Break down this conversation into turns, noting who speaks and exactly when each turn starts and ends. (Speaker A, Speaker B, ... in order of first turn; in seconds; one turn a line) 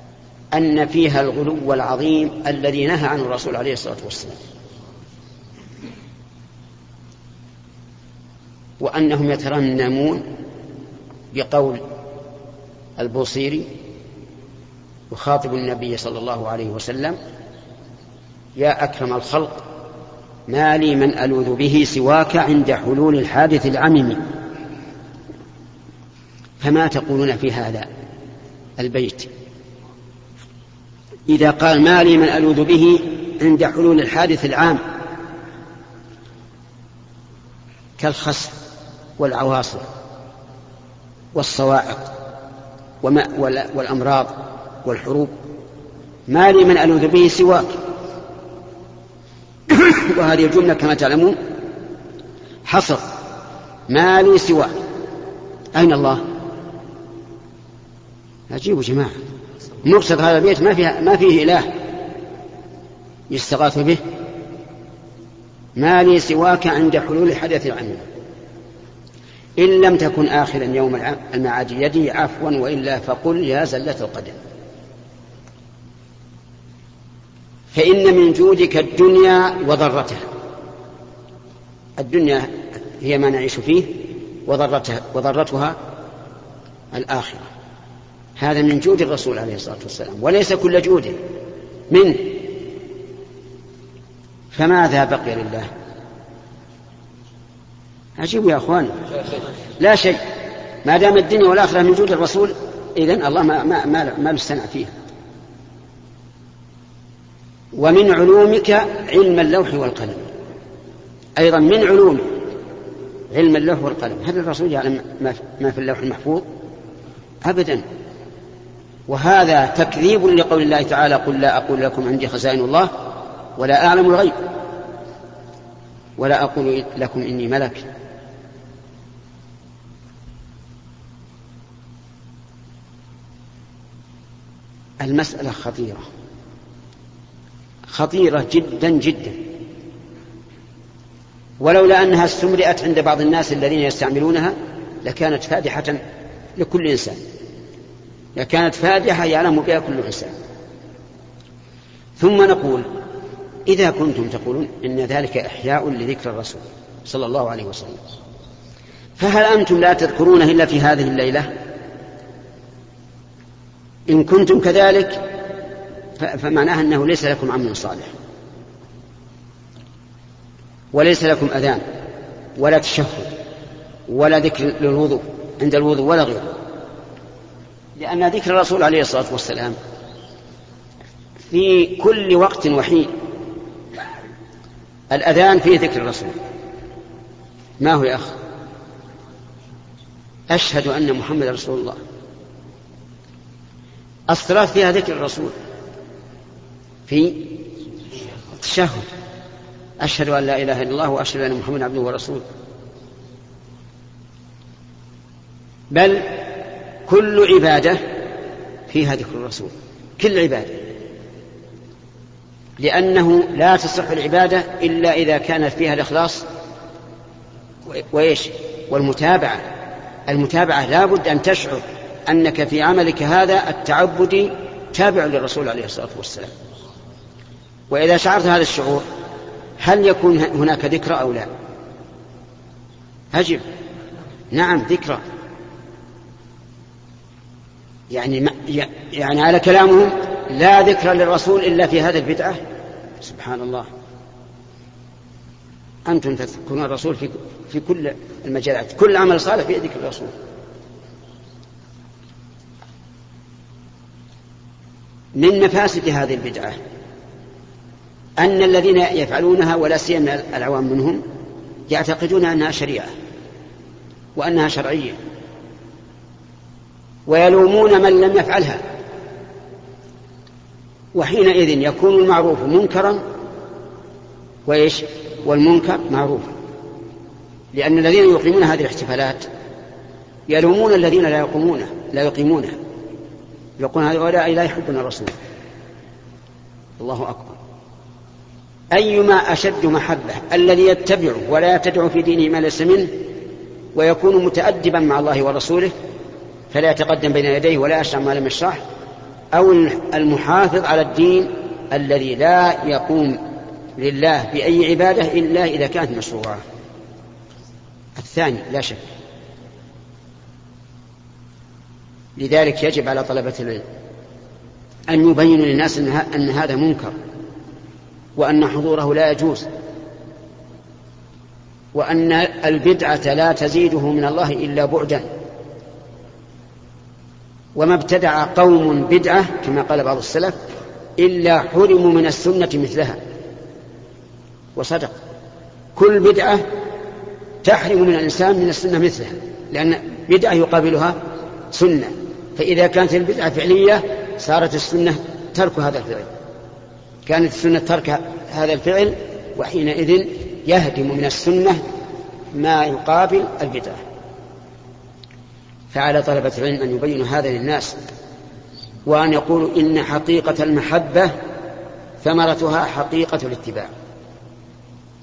Speaker A: 0.5-4.4
Speaker A: 8.8-10.2
Speaker A: 11.3-11.8
Speaker A: 13.0-13.7
Speaker A: 15.1-17.2
Speaker A: 18.6-19.6
Speaker A: 20.5-24.2
Speaker A: 26.6-27.9
Speaker A: 28.8-29.3
Speaker A: 31.3-34.8
Speaker A: 38.0-38.6
Speaker A: 39.2-39.9
Speaker A: 41.4-42.1
Speaker A: 43.0-45.3
Speaker A: 46.3-47.8
Speaker A: 49.7-51.4
Speaker A: 52.6-53.1
Speaker A: 53.9-54.8
Speaker A: 55.8-56.3
Speaker A: 58.5-59.2
Speaker A: 59.8-61.7
Speaker A: 63.3-64.0
Speaker A: 65.8-68.0
Speaker A: 69.6-74.4
Speaker A: 77.7-80.3
Speaker A: 82.0-85.8
Speaker A: 86.9-87.5
Speaker A: 88.4-91.2
Speaker A: 91.9-92.5
Speaker A: 94.5-95.7
Speaker A: 98.2-99.1
Speaker A: 99.8-100.2
Speaker A: 100.8-104.9
Speaker A: 107.7-110.3
Speaker A: 111.4-112.4
Speaker A: 113.3-116.5
Speaker A: 117.4-117.8
Speaker A: 119.1-123.0
Speaker A: 123.6-124.4
Speaker A: 126.2-127.9
Speaker A: 135.0-136.0
Speaker A: 137.9-139.4
Speaker A: 141.6-146.0
Speaker A: 146.6-147.2
Speaker A: 148.4-150.3
Speaker A: 152.2-152.9
Speaker A: 153.7-158.0
Speaker A: 159.2-161.5
Speaker A: 164.1-165.2
Speaker A: 166.2-168.1
Speaker A: 170.9-171.8
Speaker A: 172.6-173.3
Speaker A: 174.1-176.6
Speaker A: 178.0-179.8
Speaker A: 181.5-183.1
Speaker A: 185.1-186.3
Speaker A: 187.8-188.4
Speaker A: 190.5-192.0
Speaker A: 194.3-195.6
Speaker A: 197.1-197.5
Speaker A: 198.5-199.1
Speaker A: 200.0-202.4
Speaker A: 205.9-206.4
Speaker A: 207.1-208.0
Speaker A: 208.9-210.8
Speaker A: 212.8-216.4
Speaker A: 217.9-219.6
Speaker A: 220.3-226.5
Speaker A: 227.9-229.1
Speaker A: 229.8-231.5
Speaker A: 233.3-233.7
Speaker A: 234.5-235.2
Speaker A: 238.1-242.6
Speaker A: 243.2-243.9
Speaker A: 246.1-250.3
Speaker A: 255.4-256.8
Speaker A: 258.4-261.2
Speaker A: 261.9-263.1
Speaker A: 264.4-265.2
Speaker A: 267.3-268.8
Speaker A: 271.1-273.2
Speaker A: 274.6-276.5
Speaker A: 277.7-279.5
Speaker A: 280.5-282.8
Speaker A: 283.8-285.3
Speaker A: 287.0-287.6
Speaker A: 288.9-293.1
Speaker A: 293.9-295.9
Speaker A: 296.7-298.8
Speaker A: 299.5-303.4
Speaker A: 304.0-306.6
Speaker A: 308.2-309.1
Speaker A: 312.4-313.9
Speaker A: 315.1-317.1
Speaker A: 318.4-319.7
Speaker A: 321.9-325.3
Speaker A: 327.8-330.6
Speaker A: 331.2-333.2
Speaker A: 334.8-335.2
Speaker A: 335.9-336.6
Speaker A: 337.6-341.2
Speaker A: 341.7-346.3
Speaker A: 347.2-351.8
Speaker A: 352.6-354.0
Speaker A: 355.9-357.9
Speaker A: 359.1-361.4
Speaker A: 362.2-363.9